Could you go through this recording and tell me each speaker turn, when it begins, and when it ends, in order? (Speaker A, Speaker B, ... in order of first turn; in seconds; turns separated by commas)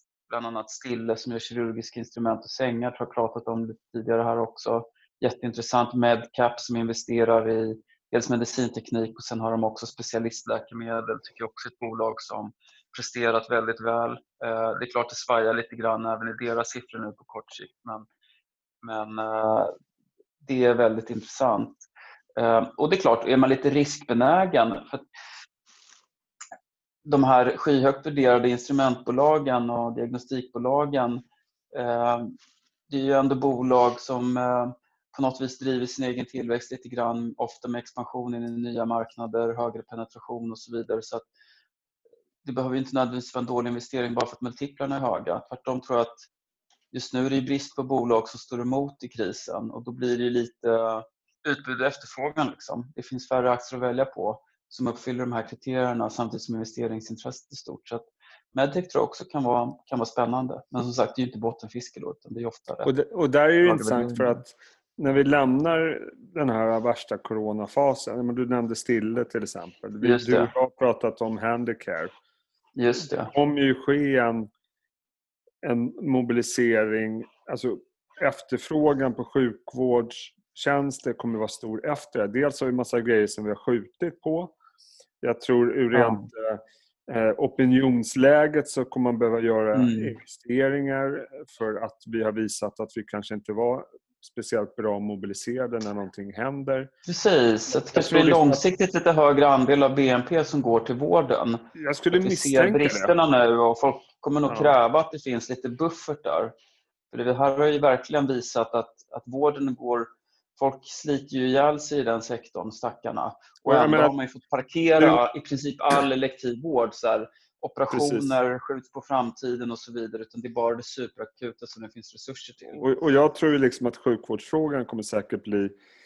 Speaker A: 0.3-18.1, Speaker A: 18.8-19.7, Speaker A: 20.4-21.8, Speaker A: 22.4-25.1, Speaker A: 27.1-32.4, Speaker A: 32.9-41.3, Speaker A: 42.4-46.3, Speaker A: 46.9-62.9, Speaker B: 62.9-72.1, Speaker A: 63.6-64.4, Speaker A: 70.0-70.5, Speaker A: 72.8-73.3, Speaker B: 73.3-74.5, Speaker B: 75.6-84.5, Speaker B: 85.2-96.9, Speaker A: 85.9-86.3, Speaker A: 89.7-90.1, Speaker A: 97.1-106.5, Speaker B: 97.9-98.6, Speaker B: 101.8-103.1, Speaker B: 104.5-104.7, Speaker A: 107.1-122.8, Speaker B: 113.7-114.2, Speaker B: 117.9-118.3, Speaker B: 122.7-125.8